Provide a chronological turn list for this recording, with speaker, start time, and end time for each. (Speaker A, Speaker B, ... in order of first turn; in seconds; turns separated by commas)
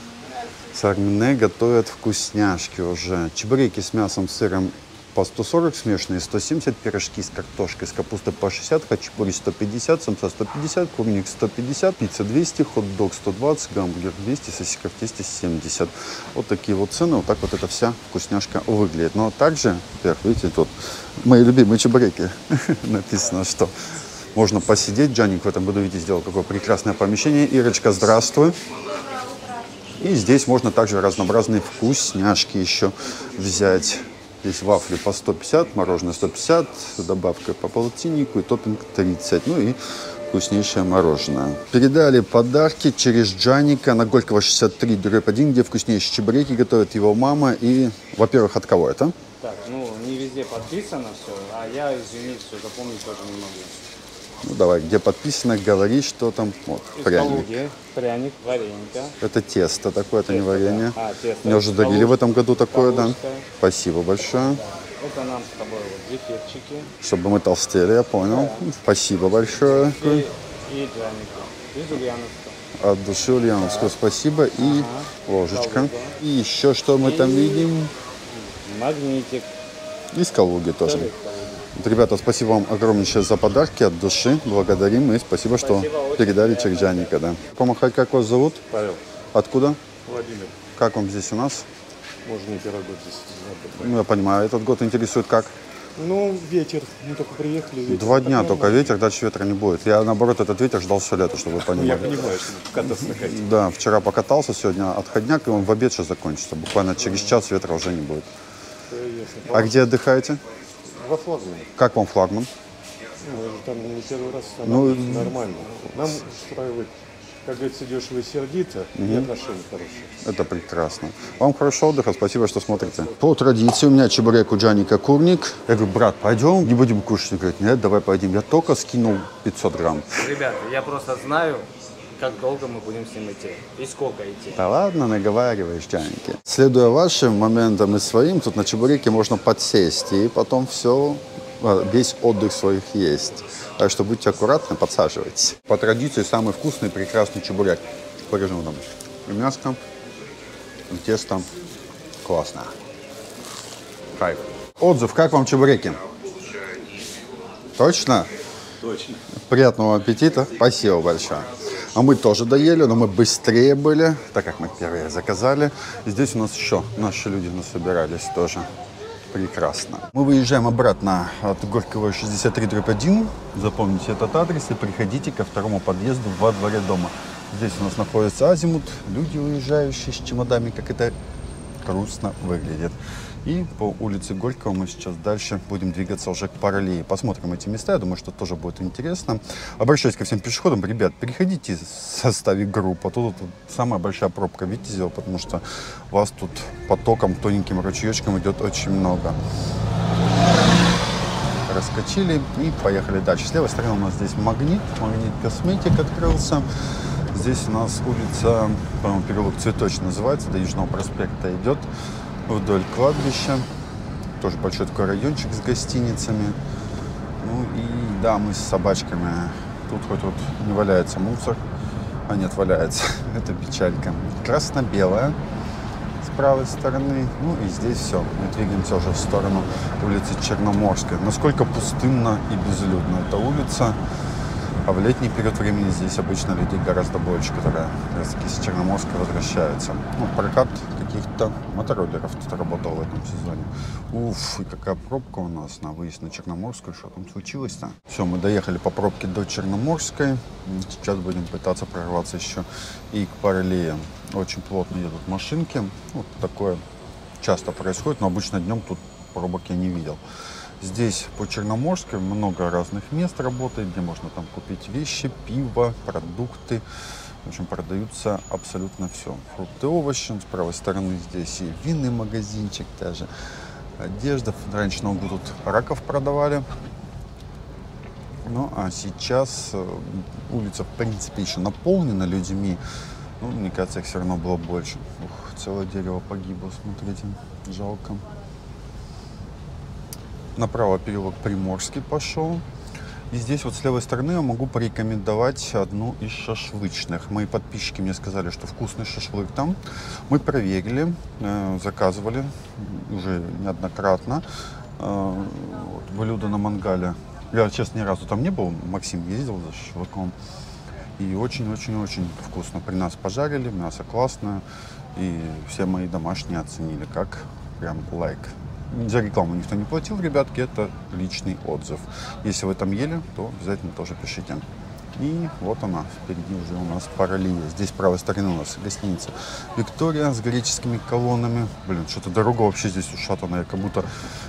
Speaker A: 0.7-23.7, Speaker A: 24.4-28.6, Speaker A: 30.0-39.8, Speaker A: 40.3-49.1, Speaker B: 49.4-53.8, Speaker A: 54.4-57.5, Speaker B: 57.0-59.1, Speaker A: 59.2-64.6, Speaker B: 60.3-63.5, Speaker B: 65.0-66.9, Speaker A: 67.0-70.2, Speaker B: 68.2-68.6, Speaker B: 69.6-72.6, Speaker A: 72.8-77.9, Speaker B: 73.6-73.9, Speaker B: 74.6-76.2, Speaker B: 77.0-77.7, Speaker B: 78.3-79.5, Speaker A: 80.1-81.1, Speaker B: 80.8-81.6, Speaker A: 81.8-88.6, Speaker B: 85.6-87.1, Speaker C: 88.7-89.0, Speaker A: 89.3-89.8, Speaker C: 90.1-90.5, Speaker A: 90.8-91.7, Speaker C: 92.3-94.0, Speaker A: 93.8-95.5, Speaker C: 96.0-99.0, Speaker A: 97.9-102.3, Speaker C: 101.6-103.4, Speaker A: 102.9-108.3, Speaker C: 107.0-107.4, Speaker C: 108.9-109.8, Speaker A: 109.5-110.4, Speaker C: 110.9-111.7, Speaker A: 111.8-112.5, Speaker C: 113.2-116.9, Speaker A: 114.6-115.4, Speaker C: 117.5-120.1, Speaker A: 119.0-119.3, Speaker A: 120.2-130.2, Speaker B: 130.2-134.6, Speaker A: 134.6-149.8, Speaker A: 150.9-151.5, Speaker A: 152.2-152.7, Speaker A: 154.2-156.0, Speaker A: 157.8-158.3, Speaker A: 159.5-168.7, Speaker A: 169.3-181.2, Speaker A: 181.8-199.4, Speaker A: 201.7-206.7, Speaker A: 207.3-211.9, Speaker A: 212.5-213.7, Speaker A: 214.4-216.6, Speaker A: 217.4-221.6, Speaker A: 222.3-225.4, Speaker A: 226.2-234.0, Speaker A: 234.8-256.8, Speaker A: 257.4-260.2, Speaker A: 260.8-266.8, Speaker A: 267.4-273.3, Speaker A: 274.0-276.7, Speaker A: 278.4-282.8, Speaker A: 283.4-288.2, Speaker A: 290.6-292.6, Speaker A: 293.3-299.8, Speaker A: 300.3-304.4, Speaker A: 305.0-310.3, Speaker A: 311.2-314.6, Speaker A: 315.2-324.6, Speaker A: 325.1-334.1